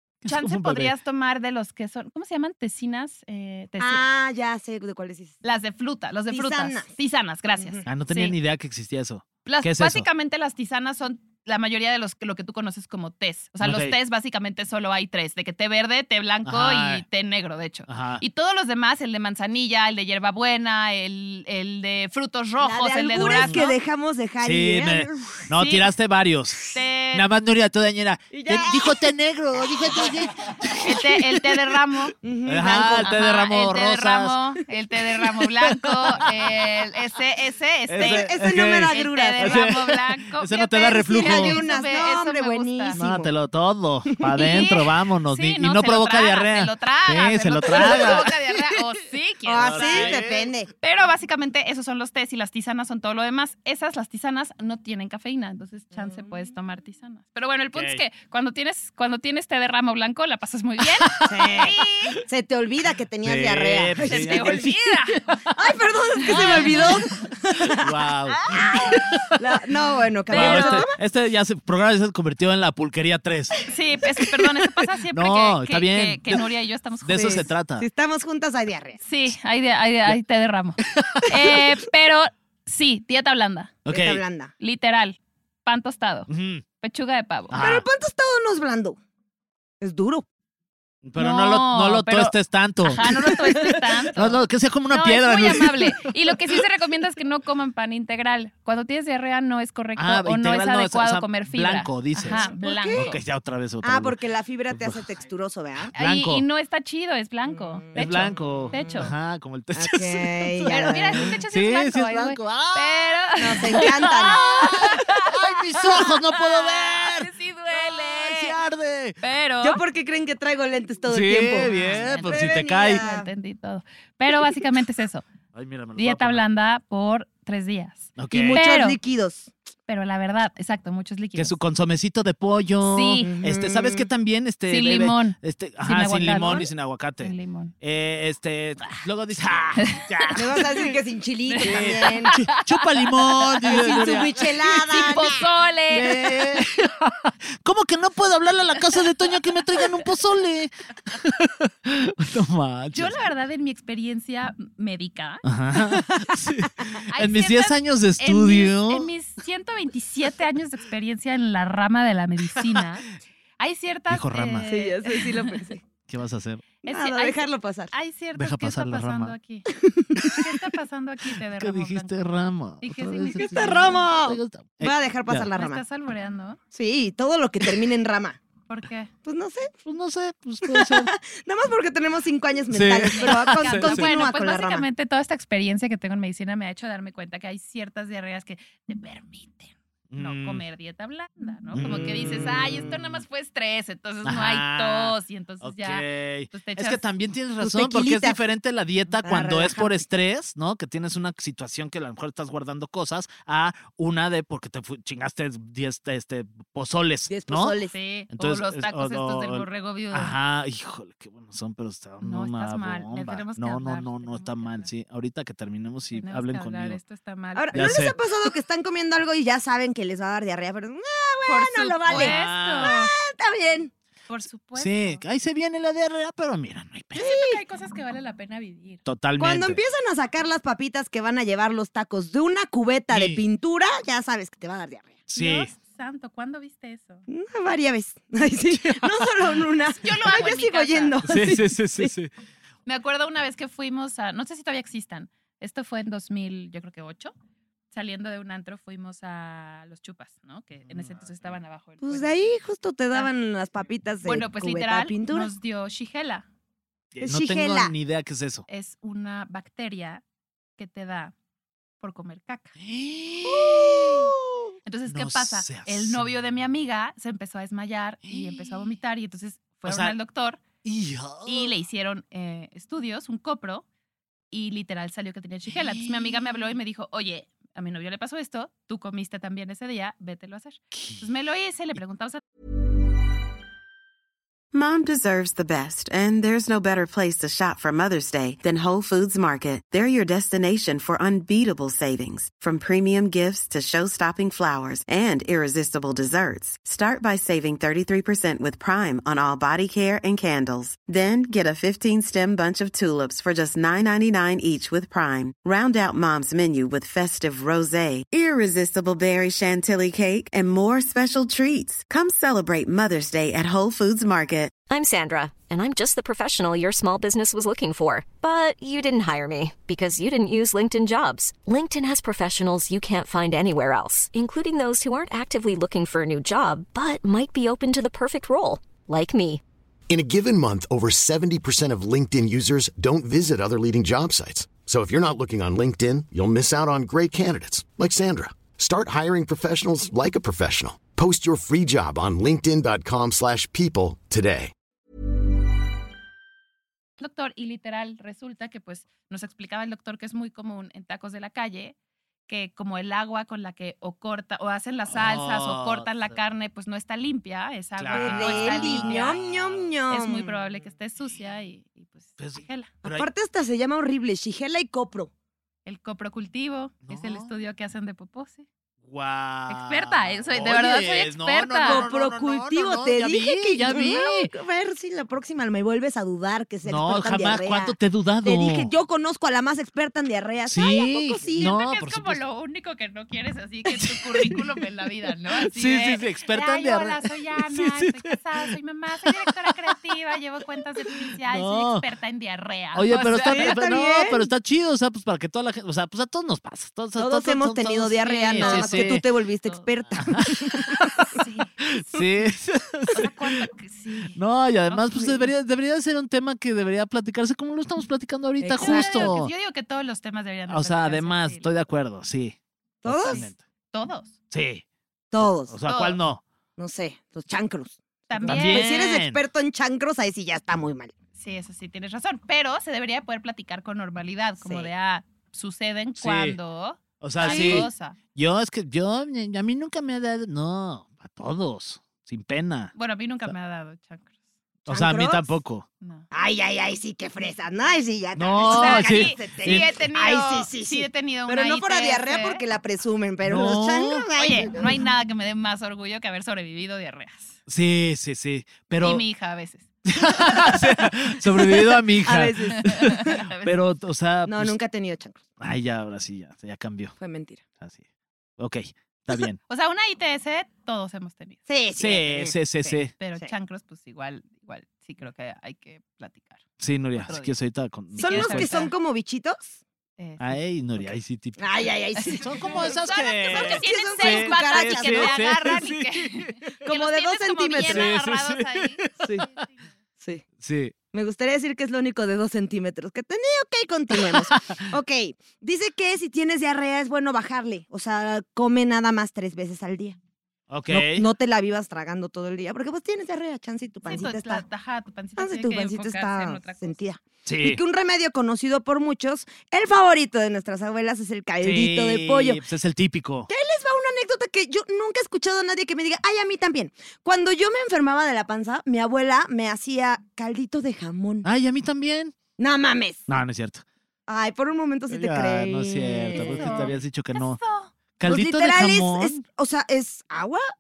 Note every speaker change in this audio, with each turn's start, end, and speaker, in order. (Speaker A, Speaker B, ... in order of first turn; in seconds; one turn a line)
Speaker A: 0.2-0.9
Speaker B: 0.2-4.0
Speaker C: 3.8-5.4
Speaker B: 5.4-8.3
Speaker C: 6.3-6.9
Speaker C: 7.6-7.8
Speaker A: 7.8-10.1
Speaker B: 9.4-23.7
Speaker A: 13.6-13.9
Speaker A: 16.4-17.0
Speaker A: 17.9-18.2
Speaker C: 22.6-25.4
Speaker A: 23.2-23.7
Speaker A: 24.4-31.1
Speaker B: 25.5-25.8
Speaker B: 26.7-27.2
Speaker C: 28.3-29.0
Speaker C: 29.9-30.3
Speaker B: 30.8-32.1
Speaker C: 32.2-33.1
Speaker A: 32.5-34.4
Speaker B: 32.9-38.3
Speaker A: 35.8-36.2
Speaker A: 37.9-41.6
Speaker C: 38.0-39.7
Speaker B: 38.9-43.0
Speaker C: 40.9-43.3
Speaker A: 42.9-48.3
Speaker B: 44.4-50.1
Speaker C: 47.7-48.3
Speaker C: 49.5-50.7
Speaker A: 49.5-50.5
Speaker B: 50.8-62.2
Speaker C: 56.0-56.2
Speaker A: 57.7-58.0
Speaker A: 61.0-61.6
Speaker C: 61.3-64.6
Speaker A: 63.2-64.7
Speaker B: 64.0-65.2
Speaker C: 65.5-67.9
Speaker B: 66.2-67.0
Speaker A: 66.2-67.0
Speaker A: 67.7-69.4
Speaker C: 68.5-71.0
Speaker B: 70.3-70.8
Speaker A: 70.3-76.5
Speaker B: 73.7-77.4
Speaker A: 77.0-77.8
Speaker C: 77.1-79.0
Speaker B: 79.0-83.8
Speaker A: 80.8-81.5
Speaker A: 83.8-84.2
Speaker C: 83.9-84.5
Speaker B: 84.6-86.3
Speaker A: 86.3-86.6
Speaker B: 86.8-87.5
Speaker A: 87.5-87.8
Speaker C: 87.6-89.0
Speaker C: 89.8-90.2
Speaker A: 91.0-96.1
Speaker B: 91.2-103.2
Speaker A: 100.0-104.2
Speaker C: 102.2-103.1
Speaker C: 103.8-105.9
Speaker A: 104.7-105.0
Speaker A: 105.8-106.4
Speaker B: 105.9-109.1
Speaker C: 107.5-109.0
Speaker A: 107.9-119.2
Speaker C: 109.8-111.4
Speaker B: 110.7-118.5
Speaker C: 113.4-114.9
Speaker B: 119.2-119.8
Speaker C: 119.6-123.3
Speaker A: 121.1-123.0
Speaker B: 121.6-125.2
Speaker A: 125.5-126.4
Speaker B: 126.0-129.0
Speaker A: 128.2-128.6
Speaker C: 128.3-129.5
Speaker B: 129.9-131.6
Speaker A: 131.3-140.8
Speaker B: 132.8-133.3
Speaker C: 133.2-134.1
Speaker B: 134.7-137.7
Speaker B: 139.8-140.9
Speaker C: 140.3-142.4
Speaker B: 141.5-144.3
Speaker A: 141.6-145.2
Speaker C: 143.7-146.6
Speaker B: 144.8-146.1
Speaker A: 145.9-153.2
Speaker B: 152.9-155.4
Speaker A: 155.4-159.1
Speaker B: 157.1-163.1
Speaker B: 163.6-165.7
Speaker A: 164.1-164.7
Speaker C: 164.7-165.8
Speaker A: 166.1-166.6
Speaker B: 166.8-169.7
Speaker C: 166.8-167.9
Speaker A: 168.3-169.3
Speaker C: 169.7-170.3
Speaker A: 170.2-170.4
Speaker B: 170.3-172.1
Speaker A: 171.5-175.5
Speaker B: 172.8-174.0
Speaker C: 173.3-175.8
Speaker B: 175.5-176.6
Speaker C: 176.7-178.4
Speaker B: 178.7-179.1
Speaker C: 179.2-179.7
Speaker A: 179.8-181.1
Speaker C: 180.6-184.8
Speaker A: 182.7-184.1
Speaker B: 183.1-197.0
Speaker A: 190.1-190.6
Speaker A: 191.7-192.6
Speaker C: 191.8-192.8
Speaker A: 194.2-207.8
Speaker C: 197.6-198.4
Speaker C: 199.2-200.0
Speaker C: 207.3-207.9
Speaker B: 207.9-210.3
Speaker A: 208.3-217.0
Speaker B: 212.2-214.9
Speaker B: 216.1-218.0
Speaker C: 217.6-223.9
Speaker A: 217.7-218.2
Speaker B: 221.5-223.1
Speaker A: 222.1-222.9
Speaker B: 224.3-225.2
Speaker A: 224.7-227.3
Speaker B: 227.1-229.0
Speaker C: 227.2-227.6
Speaker A: 229.0-229.8
Speaker C: 229.4-235.2
Speaker A: 233.1-233.4
Speaker A: 235.3-235.7
Speaker B: 235.3-237.2
Speaker C: 237.3-242.1
Speaker A: 238.7-239.3
Speaker B: 240.0-241.2
Speaker A: 241.2-242.3
Speaker B: 242.8-247.3
Speaker B: 247.9-252.4
Speaker A: 250.8-251.5
Speaker C: 252.0-255.5
Speaker B: 254.2-256.5
Speaker A: 257.1-258.6
Speaker C: 257.2-257.9
Speaker B: 258.7-260.2
Speaker B: 260.8-261.3
Speaker B: 262.0-262.7
Speaker A: 262.8-266.3
Speaker C: 263.5-264.3
Speaker B: 264.9-270.6
Speaker A: 268.2-268.9
Speaker A: 269.9-270.1
Speaker A: 270.8-271.7
Speaker B: 271.4-273.8
Speaker B: 274.5-282.4
Speaker A: 275.7-276.7
Speaker A: 280.9-281.2
Speaker D: 284.7-314.8
Speaker E: 314.9-329.6
Speaker F: 330.1-344.7
Speaker B: 347.2-351.9
Speaker B: 352.5-359.4
Speaker A: 355.1-356.4
Speaker A: 358.0-359.9
Speaker C: 358.1-360.5
Speaker B: 360.1-362.9
Speaker A: 362.4-363.3
Speaker C: 363.0-365.3
Speaker B: 365.9-368.7
Speaker A: 367.0-367.5
Speaker A: 369.0-374.5
Speaker B: 369.7-372.0
Speaker C: 371.8-381.7
Speaker A: 376.8-378.9
Speaker A: 380.7-382.4
Speaker B: 381.5-393.8
Speaker A: 383.9-384.6
Speaker A: 385.6-388.7
Speaker A: 389.2-389.9
Speaker A: 391.3-392.0
Speaker A: 392.9-399.2
Speaker C: 393.3-394.4
Speaker C: 397.2-400.9
Speaker B: 398.5-399.9
Speaker A: 400.2-403.6
Speaker B: 401.3-401.7
Speaker B: 403.1-405.3
Speaker A: 404.4-409.5
Speaker C: 408.6-409.3
Speaker B: 408.8-411.7
Speaker A: 410.7-413.6
Speaker C: 413.0-413.4
Speaker B: 413.2-414.3
Speaker A: 414.5-414.8
Speaker C: 415.3-415.8
Speaker A: 415.4-416.4
Speaker B: 415.9-416.2
Speaker C: 416.8-421.1
Speaker B: 418.3-419.0
Speaker A: 418.4-419.4
Speaker B: 421.4-428.2
Speaker C: 424.6-424.9
Speaker A: 426.1-426.6
Speaker A: 427.2-432.9
Speaker C: 427.4-427.9
Speaker B: 432.9-434.4
Speaker A: 434.9-435.9
Speaker C: 434.9-435.5
Speaker B: 436.0-436.3
Speaker C: 436.3-444.9
Speaker A: 438.4-439.9
Speaker B: 438.6-442.6
Speaker A: 443.4-444.3
Speaker B: 444.3-447.6
Speaker A: 447.7-449.2
Speaker B: 449.0-450.8
Speaker A: 450.1-454.7
Speaker C: 452.2-453.4
Speaker B: 452.8-453.8
Speaker C: 454.4-455.4
Speaker A: 455.6-457.1
Speaker C: 457.2-457.6
Speaker A: 458.6-459.6
Speaker B: 459.7-461.6
Speaker C: 461.7-463.5
Speaker A: 462.0-463.1
Speaker B: 463.2-466.6
Speaker A: 466.8-468.8
Speaker B: 467.1-467.6
Speaker B: 468.1-468.9
Speaker C: 468.2-469.8
Speaker B: 470.2-471.1
Speaker A: 470.4-476.6
Speaker C: 471.6-475.4
Speaker B: 472.1-479.0
Speaker C: 476.8-478.1
Speaker A: 477.8-479.4
Speaker A: 480.6-480.9
Speaker C: 481.1-490.2
Speaker A: 484.1-484.8
Speaker A: 490.7-491.2
Speaker C: 490.9-494.6
Speaker B: 494.1-497.0
Speaker C: 495.4-502.6
Speaker A: 497.4-497.8
Speaker A: 501.6-503.5
Speaker C: 503.5-511.4
Speaker A: 511.4-512.3
Speaker C: 512.6-513.2
Speaker A: 513.3-513.8
Speaker C: 514.3-516.9
Speaker A: 515.1-517.6
Speaker B: 516.3-517.9
Speaker A: 518.2-519.4
Speaker C: 518.2-520.6